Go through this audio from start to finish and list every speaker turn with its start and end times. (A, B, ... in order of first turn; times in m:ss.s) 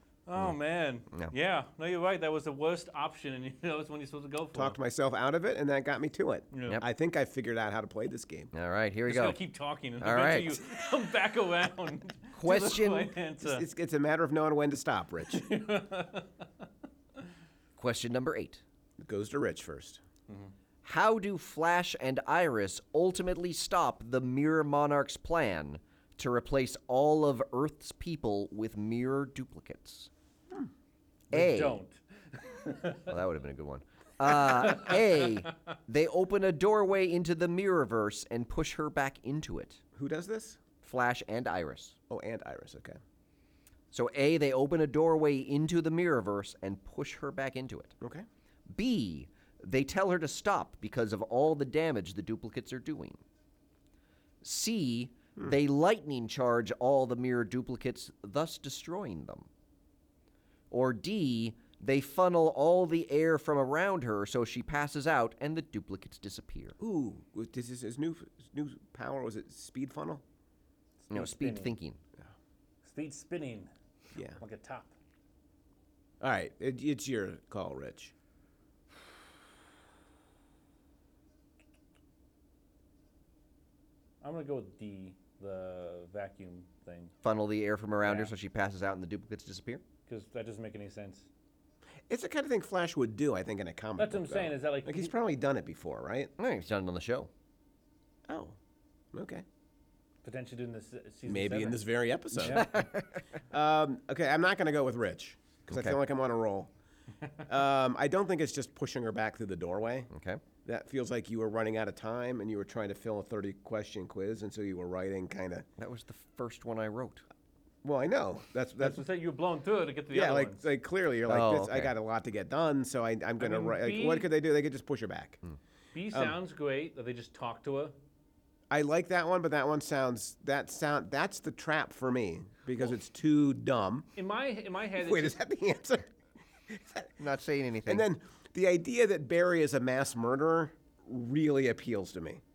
0:00.3-0:04.8 A
0:04.5-0:08.5 B
0:06.5-0:06.8 A
0:08.5-0:09.4 C
0:09.1-0:13.6 A
0:10.0-0:10.6 C
0:12.3-0:13.1 C
0:13.4-0:15.4 B
0:15.3-0:16.4 A
0:17.8-0:18.6 C
0:19.0-0:20.0 B
0:20.8-0:30.1 C
0:31.3-0:33.1 A
0:31.3-0:31.8 C
0:33.0-0:39.8 C
0:34.4-0:35.3 A
0:39.9-0:40.6 B
0:40.8-0:42.0 C
0:42.1-0:43.0 B
0:43.9-0:47.9 C
0:48.0-0:48.2 B
0:48.7-0:53.2 C
0:54.4-0:59.5 C
1:00.7-1:06.7 C
1:06.8-1:10.2 B
1:11.0-1:11.7 A
1:11.1-1:12.0 C
1:12.8-1:13.7 A
1:14.1-1:14.4 B
1:14.4-1:14.9 A
1:16.2-1:18.1 B
1:24.2-1:27.1 A
1:27.2-1:29.8 C
1:28.0-1:28.3 A
1:30.1-1:31.3 A
1:32.1-1:36.3 B
1:34.0-1:35.1 A
1:36.4-1:37.3 C
1:38.3-1:38.6 B
1:39.1-1:39.4 B
1:40.2-1:41.8 A
1:41.2-1:42.6 B
1:42.4-1:42.7 A
1:42.4-1:43.3 C
1:43.5-1:46.7 B
1:45.7-1:46.0 C
1:47.4-1:50.1 B
1:50.1-1:50.4 C
1:50.6-1:55.7 B
1:55.8-1:57.2 C
1:57.8-1:59.0 B
1:58.8-2:00.7 A
2:00.1-2:05.4 B
2:01.3-2:01.9 C
2:03.4-2:04.3 A
2:05.9-2:07.9 A
2:06.1-2:06.4 B
2:08.7-2:14.1 B
2:14.2-2:15.4 A
2:15.0-2:16.1 B
2:16.7-2:17.1 B
2:17.2-2:18.0 C
2:17.9-2:22.4 B